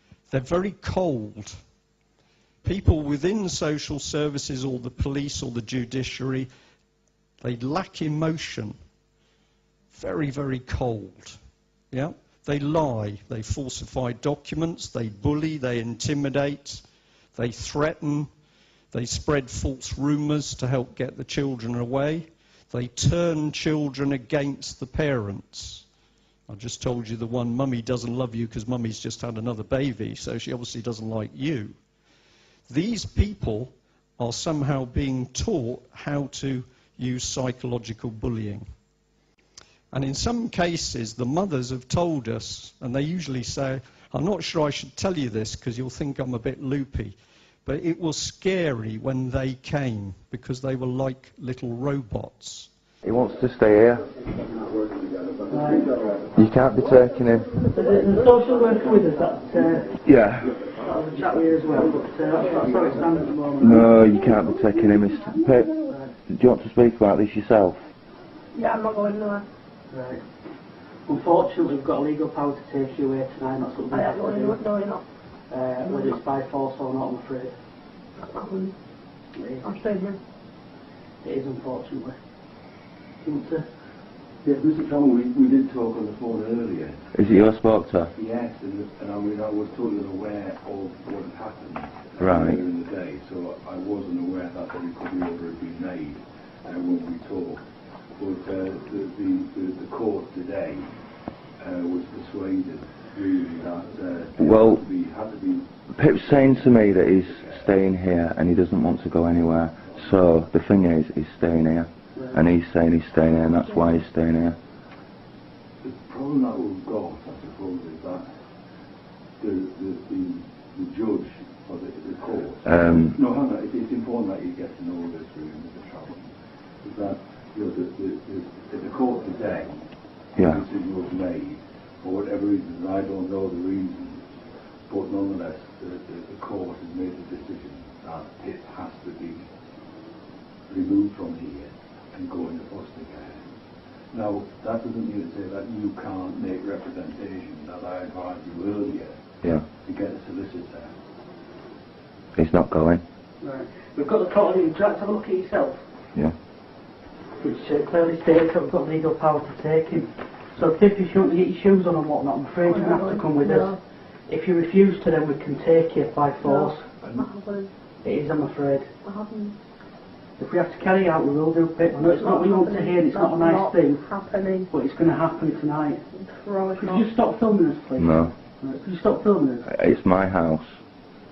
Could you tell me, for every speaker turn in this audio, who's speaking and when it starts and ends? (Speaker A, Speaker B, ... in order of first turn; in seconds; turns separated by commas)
Speaker A: 0.3-1.5, Speaker A: 2.6-6.5, Speaker A: 7.4-8.8, Speaker A: 9.9-11.4, Speaker A: 11.9-16.8, Speaker A: 17.3-18.3, Speaker A: 18.9-25.8, Speaker A: 26.5-31.8, Speaker A: 32.7-38.6, Speaker A: 39.9-52.7, Speaker B: 53.0-54.1, Speaker C: 54.6-56.3, Speaker D: 55.5-55.9, Speaker B: 56.3-57.5, Speaker E: 57.5-58.1, Speaker D: 57.7-60.0, Speaker B: 60.0-60.5, Speaker D: 60.8-63.9, Speaker B: 63.6-65.7, Speaker E: 64.9-65.9, Speaker B: 66.3-67.8, Speaker E: 68.5-69.4, Speaker D: 69.9-70.2, Speaker D: 71.0-74.6, Speaker E: 73.9-75.0, Speaker D: 75.5-77.5, Speaker E: 75.8-76.2, Speaker E: 78.2-78.7, Speaker D: 79.3-79.7, Speaker E: 79.6-80.2, Speaker D: 81.2-82.2, Speaker D: 83.2-83.7, Speaker C: 84.4-87.4, Speaker B: 87.1-88.1, Speaker C: 88.1-97.6, Speaker B: 92.2-92.6, Speaker C: 98.2-100.9, Speaker C: 101.6-107.6, Speaker B: 104.4-104.8, Speaker B: 105.9-114.5, Speaker C: 115.8-118.3, Speaker C: 119.4-126.3, Speaker B: 122.7-123.2, Speaker C: 126.8-129.8, Speaker B: 130.3-130.6, Speaker C: 130.4-134.2, Speaker C: 134.9-139.4, Speaker C: 140.7-143.4, Speaker C: 144.1-150.9, Speaker B: 152.3-153.0, Speaker D: 153.4-155.8, Speaker D: 157.4-167.0, Speaker E: 162.7-163.8, Speaker E: 166.4-167.7, Speaker D: 168.0-168.9, Speaker E: 169.0-169.6, Speaker D: 170.4-174.0, Speaker E: 172.0-174.7, Speaker D: 174.7-176.0, Speaker E: 176.1-177.1, Speaker D: 176.7-179.7, Speaker B: 178.0-178.3, Speaker B: 179.7-180.7